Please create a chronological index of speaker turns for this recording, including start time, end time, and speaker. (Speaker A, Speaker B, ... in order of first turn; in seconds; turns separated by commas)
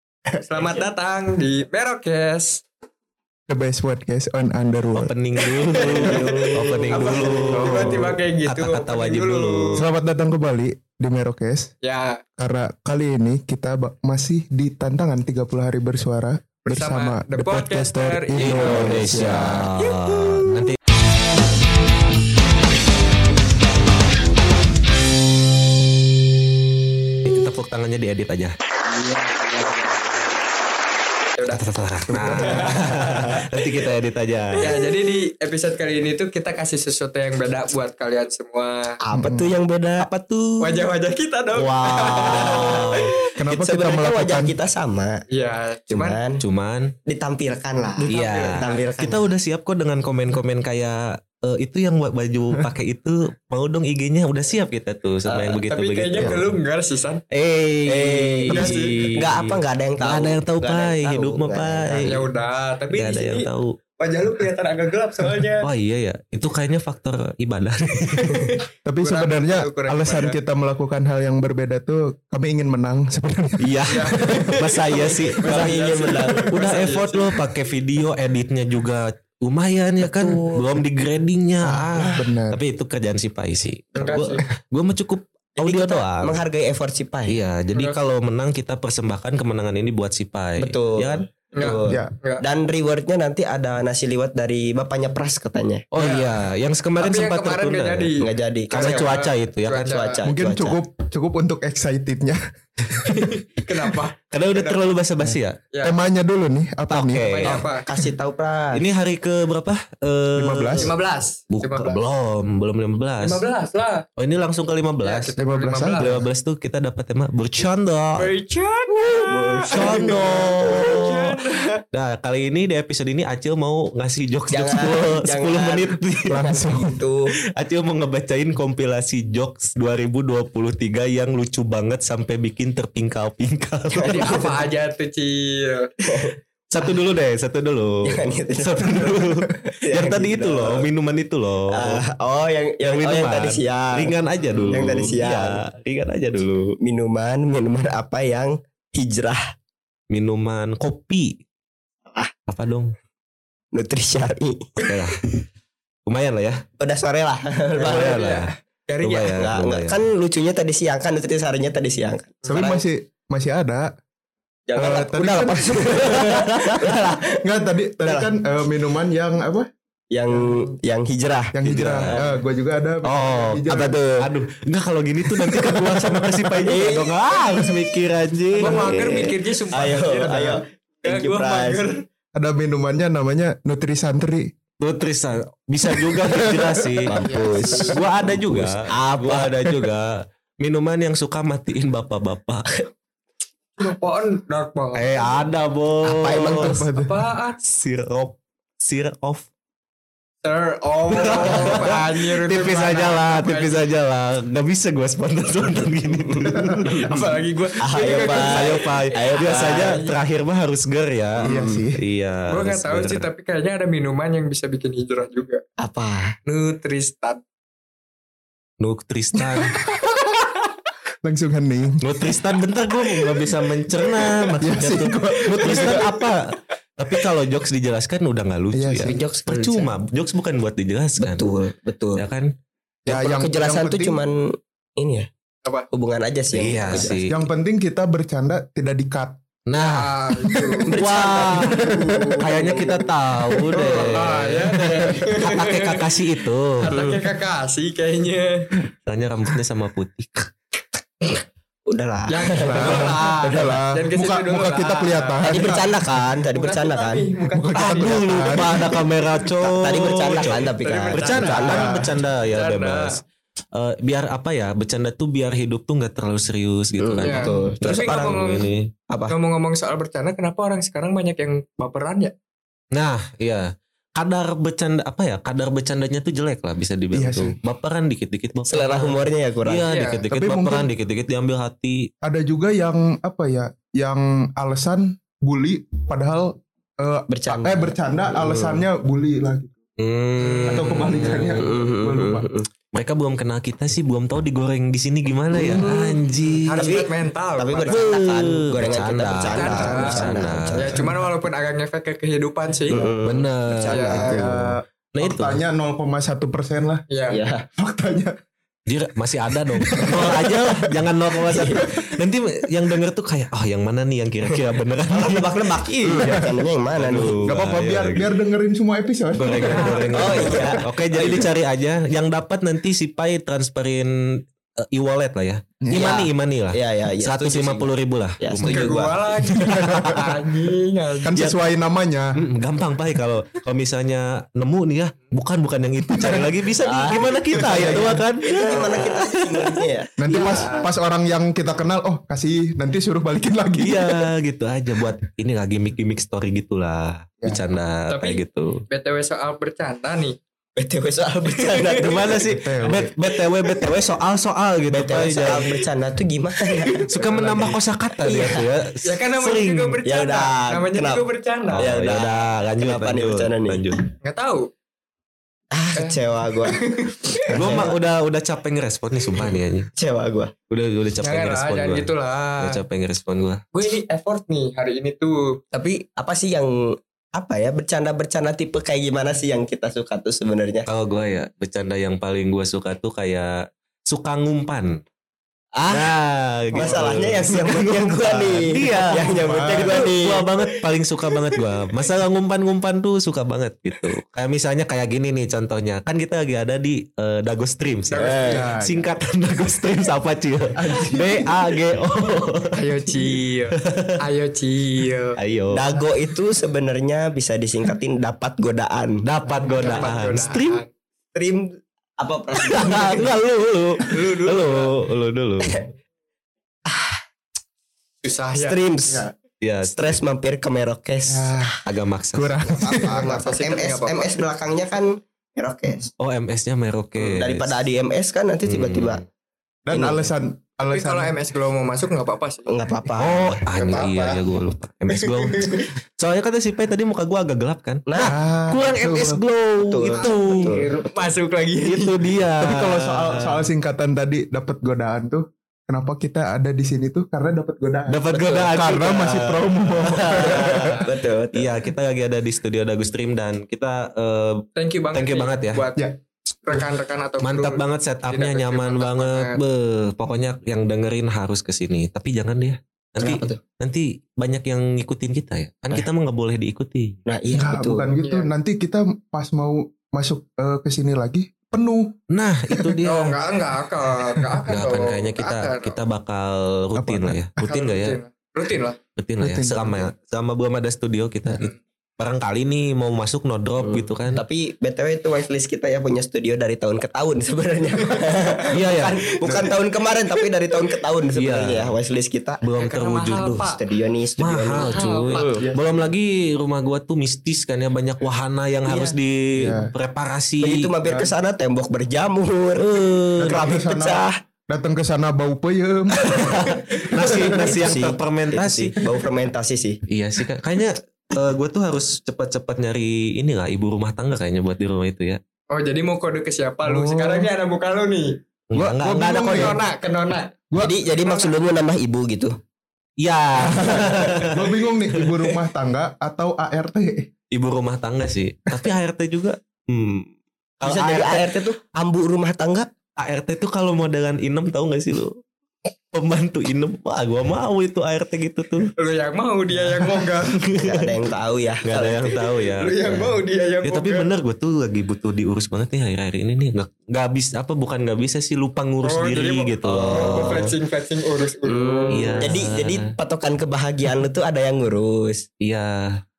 Speaker A: 0.5-2.6, Speaker B: 0.6-0.8, Speaker C: 3.5-5.1, Speaker D: 5.0-9.8, Speaker A: 5.7-9.8, Speaker C: 6.0-6.3, Speaker B: 6.6-7.8, Speaker C: 7.8-8.1, Speaker C: 9.8-11.7, Speaker A: 11.8-12.2, Speaker C: 12.4-19.7, Speaker A: 16.7-19.1, Speaker D: 18.4-20.8, Speaker A: 19.8-20.7, Speaker D: 27.3-28.6, Speaker A: 28.9-30.4, Speaker A: 31.4-33.4, Speaker D: 31.5-34.7, Speaker A: 34.6-39.0, Speaker B: 39.0-40.9, Speaker C: 39.1-39.6, Speaker A: 40.6-43.1, Speaker D: 41.5-43.1, Speaker B: 42.1-45.2, Speaker C: 43.4-44.5, Speaker A: 45.3-46.2, Speaker B: 45.9-46.4, Speaker D: 46.4-46.9, Speaker B: 47.1-49.3, Speaker A: 48.0-48.8, Speaker D: 48.1-56.5, Speaker B: 55.3-55.6, Speaker A: 55.7-57.2, Speaker D: 57.3-62.2, Speaker B: 57.9-62.2, Speaker A: 58.5-59.1, Speaker A: 62.0-65.7, Speaker D: 62.9-63.8, Speaker D: 65.6-68.5, Speaker C: 68.8-73.7, Speaker A: 69.0-70.4, Speaker D: 73.6-86.4, Speaker A: 73.9-77.3, Speaker B: 75.4-76.9, Speaker B: 80.0-80.8, Speaker C: 81.6-82.6, Speaker A: 84.0-84.4, Speaker B: 85.6-87.4, Speaker D: 87.3-91.2, Speaker A: 87.8-88.0, Speaker B: 90.6-95.8, Speaker A: 91.5-92.4, Speaker C: 91.9-92.1, Speaker D: 95.9-98.2, Speaker A: 96.0-96.3, Speaker A: 97.0-98.2, Speaker B: 98.2-99.2, Speaker D: 98.7-99.9, Speaker A: 98.7-100.2, Speaker B: 99.9-100.8, Speaker C: 100.2-103.3, Speaker A: 103.2-104.8, Speaker D: 104.3-105.6, Speaker C: 105.8-107.4, Speaker D: 106.9-107.7, Speaker A: 107.2-107.8, Speaker B: 107.4-108.8, Speaker D: 108.7-110.9, Speaker C: 110.3-110.9, Speaker A: 110.8-112.0, Speaker D: 111.5-113.4, Speaker A: 113.2-114.1, Speaker D: 114.2-115.3, Speaker A: 115.0-116.2, Speaker C: 115.4-116.2, Speaker D: 116.0-118.3, Speaker A: 118.2-121.8, Speaker B: 119.1-121.0, Speaker D: 119.7-121.2, Speaker D: 121.9-126.4, Speaker B: 124.5-127.3, Speaker C: 126.3-127.0, Speaker D: 127.5-134.5, Speaker B: 134.0-134.7, Speaker A: 134.0-135.9, Speaker B: 136.1-136.9, Speaker D: 136.7-142.0, Speaker B: 138.1-140.9, Speaker B: 141.7-145.6, Speaker D: 142.8-146.7, Speaker B: 146.8-149.4, Speaker D: 150.1-151.4, Speaker D: 152.5-152.9, Speaker B: 153.7-154.9, Speaker D: 154.8-155.2, Speaker D: 156.1-156.6, Speaker B: 156.8-158.2, Speaker D: 157.8-158.4, Speaker A: 157.9-159.3, Speaker D: 159.0-160.0, Speaker B: 159.3-162.8, Speaker C: 162.5-163.9, Speaker B: 164.7-167.4, Speaker C: 164.8-166.2, Speaker D: 165.2-167.2, Speaker C: 167.4-169.7, Speaker B: 168.0-168.3, Speaker B: 170.1-172.3, Speaker C: 170.3-170.7, Speaker C: 171.5-174.0, Speaker D: 171.7-172.2, Speaker D: 173.1-179.3, Speaker B: 176.6-177.1, Speaker A: 178.6-180.5, Speaker B: 178.6-181.8, Speaker C: 180.2-180.6, Speaker A: 181.0-182.0, Speaker C: 182.3-184.5, Speaker D: 184.8-192.7, Speaker C: 185.9-187.2, Speaker B: 187.1-189.9, Speaker A: 187.2-187.9, Speaker A: 193.8-195.3, Speaker D: 194.9-196.8, Speaker B: 196.0-196.8, Speaker C: 196.5-197.2, Speaker A: 196.9-197.6, Speaker D: 197.6-199.5, Speaker A: 200.4-203.8, Speaker D: 201.2-207.2, Speaker B: 206.1-206.6, Speaker C: 206.5-207.3, Speaker A: 206.8-210.1, Speaker B: 207.8-210.0, Speaker D: 208.2-213.3, Speaker B: 211.4-211.8, Speaker C: 211.4-212.0, Speaker A: 212.5-215.6, Speaker B: 215.8-216.3, Speaker A: 216.5-217.4, Speaker D: 218.8-219.8, Speaker C: 219.4-220.2, Speaker C: 221.2-222.2, Speaker D: 222.0-231.4, Speaker C: 224.6-226.2, Speaker C: 228.7-229.2, Speaker B: 229.0-229.9, Speaker B: 231.2-232.2, Speaker D: 232.2-232.5, Speaker C: 233.1-234.2, Speaker B: 233.1-235.3, Speaker B: 235.9-237.2, Speaker D: 236.5-237.4, Speaker C: 237.2-239.4, Speaker D: 239.7-240.1, Speaker A: 239.8-240.9, Speaker C: 240.5-240.8, Speaker B: 240.9-243.1, Speaker D: 241.0-241.8, Speaker C: 241.9-242.4, Speaker D: 242.4-247.2, Speaker C: 243.5-244.0, Speaker A: 243.8-246.1, Speaker A: 246.8-248.7, Speaker D: 249.1-250.5, Speaker B: 251.9-253.8, Speaker A: 252.3-255.4, Speaker C: 252.5-256.0, Speaker B: 255.5-257.3, Speaker A: 256.6-258.8, Speaker C: 257.6-258.9, Speaker D: 257.8-268.9, Speaker B: 258.8-259.1, Speaker B: 259.6-262.0, Speaker A: 260.8-261.9, Speaker C: 261.7-262.1, Speaker A: 262.4-263.2, Speaker B: 267.0-268.2, Speaker A: 267.2-268.7, Speaker B: 269.1-269.4, Speaker A: 269.3-272.3, Speaker D: 272.9-282.1, Speaker C: 277.1-277.6, Speaker B: 278.7-279.9, Speaker A: 279.9-280.2, Speaker C: 280.3-280.9, Speaker C: 282.2-289.8, Speaker B: 287.3-288.9, Speaker D: 290.0-291.7, Speaker A: 290.4-291.1, Speaker C: 290.7-292.5, Speaker B: 291.5-292.7, Speaker D: 292.9-297.0, Speaker C: 295.6-296.0, Speaker B: 295.7-296.1, Speaker A: 296.6-298.1, Speaker B: 296.8-301.0, Speaker D: 297.9-301.0, Speaker A: 299.5-303.1, Speaker C: 300.9-301.2, Speaker B: 302.9-304.7, Speaker D: 303.3-304.2, Speaker A: 303.9-304.4, Speaker C: 304.3-307.1, Speaker D: 305.1-305.6, Speaker A: 307.1-307.4, Speaker B: 307.3-307.7, Speaker C: 307.8-308.4, Speaker D: 308.9-318.3, Speaker C: 309.8-311.0, Speaker B: 311.5-311.9, Speaker C: 311.8-312.1, Speaker B: 315.1-317.4, Speaker C: 316.1-316.5, Speaker C: 317.3-321.4, Speaker D: 319.4-330.1, Speaker A: 319.5-320.6, Speaker B: 320.1-321.5, Speaker B: 325.9-329.2, Speaker A: 328.7-331.4, Speaker C: 329.5-330.4, Speaker C: 331.2-332.4, Speaker D: 332.4-339.8, Speaker C: 336.1-336.6, Speaker B: 336.8-340.8, Speaker C: 337.7-338.0, Speaker C: 340.2-344.3, Speaker A: 340.3-340.9, Speaker D: 343.8-348.8, Speaker A: 348.1-350.4, Speaker B: 350.8-352.6, Speaker A: 351.6-352.1, Speaker D: 352.0-355.6, Speaker C: 352.5-353.1, Speaker B: 354.9-358.6, Speaker D: 357.1-360.0, Speaker A: 359.1-361.9, Speaker B: 360.1-363.9, Speaker D: 361.7-364.0, Speaker A: 364.2-364.7, Speaker B: 365.7-368.0, Speaker A: 366.0-367.9, Speaker D: 367.5-369.9, Speaker B: 369.3-370.5, Speaker D: 370.7-373.6, Speaker A: 371.2-372.8, Speaker A: 373.7-375.6, Speaker B: 375.7-376.7, Speaker B: 377.4-380.9, Speaker D: 380.9-383.5, Speaker D: 384.1-384.9, Speaker D: 385.8-402.8, Speaker C: 386.7-387.4, Speaker B: 386.7-390.8, Speaker C: 389.1-390.0, Speaker A: 398.1-398.6, Speaker B: 398.2-398.7, Speaker C: 398.5-399.1, Speaker C: 400.7-401.6, Speaker A: 402.8-405.4, Speaker D: 403.9-404.1, Speaker D: 405.4-405.9, Speaker B: 405.7-409.2, Speaker D: 409.2-410.8, Speaker C: 409.6-410.1, Speaker A: 409.8-410.9, Speaker B: 411.4-413.4, Speaker D: 412.6-415.8, Speaker A: 414.1-415.0, Speaker B: 416.9-417.2, Speaker A: 418.2-418.8, Speaker B: 418.5-419.3, Speaker D: 419.6-420.2, Speaker B: 419.9-421.6, Speaker C: 421.3-421.8, Speaker D: 421.9-422.8, Speaker C: 422.3-423.3, Speaker B: 422.8-426.1, Speaker A: 423.1-424.4, Speaker D: 426.2-427.8, Speaker B: 427.2-429.2, Speaker D: 428.6-429.2, Speaker C: 429.9-431.4, Speaker B: 429.9-430.3, Speaker A: 430.9-432.7, Speaker B: 432.7-433.6, Speaker D: 433.2-440.8, Speaker A: 433.7-434.4, Speaker B: 438.1-438.4, Speaker C: 438.2-439.4, Speaker B: 439.9-441.1, Speaker A: 440.2-442.3, Speaker D: 441.8-443.7, Speaker C: 442.6-450.9, Speaker D: 448.1-455.9, Speaker B: 448.3-448.8, Speaker B: 450.3-451.7, Speaker A: 450.8-451.1, Speaker A: 454.8-456.1, Speaker A: 456.6-459.6, Speaker D: 457.4-467.2, Speaker B: 463.2-463.6, Speaker B: 467.3-468.1, Speaker C: 467.5-472.2, Speaker A: 468.2-468.5, Speaker D: 472.3-473.4, Speaker C: 472.7-473.0, Speaker A: 473.0-476.0, Speaker D: 474.7-478.2, Speaker C: 477.0-477.5, Speaker A: 477.6-479.0, Speaker D: 479.2-484.4, Speaker C: 479.4-480.1, Speaker B: 483.8-492.6, Speaker D: 488.7-489.8, Speaker D: 491.3-492.0, Speaker D: 492.6-493.6, Speaker A: 492.8-493.8, Speaker B: 493.6-495.7, Speaker D: 494.4-500.9, Speaker A: 494.7-495.7, Speaker C: 495.6-495.9, Speaker B: 498.9-499.2, Speaker C: 499.6-499.9, Speaker B: 500.6-504.4, Speaker C: 501.0-501.3, Speaker D: 502.8-503.7, Speaker C: 503.4-508.0, Speaker B: 506.2-510.0, Speaker D: 506.3-509.0, Speaker D: 510.1-515.4, Speaker A: 515.7-518.4, Speaker C: 516.9-517.5, Speaker D: 518.7-519.8, Speaker C: 518.7-519.8, Speaker A: 519.5-520.5, Speaker C: 520.7-521.0, Speaker B: 520.8-522.5, Speaker A: 521.1-521.6, Speaker D: 523.2-525.5, Speaker B: 523.6-524.5, Speaker C: 523.8-527.3, Speaker D: 527.5-531.5, Speaker B: 530.8-532.9, Speaker D: 533.2-535.4, Speaker D: 536.1-538.9, Speaker A: 539.0-540.7, Speaker D: 539.8-540.9, Speaker B: 540.8-542.5, Speaker D: 541.9-543.2, Speaker A: 542.6-544.3, Speaker D: 543.8-550.7, Speaker A: 549.0-552.5, Speaker B: 549.9-550.7, Speaker B: 551.6-555.5, Speaker D: 552.1-553.0, Speaker D: 555.6-556.0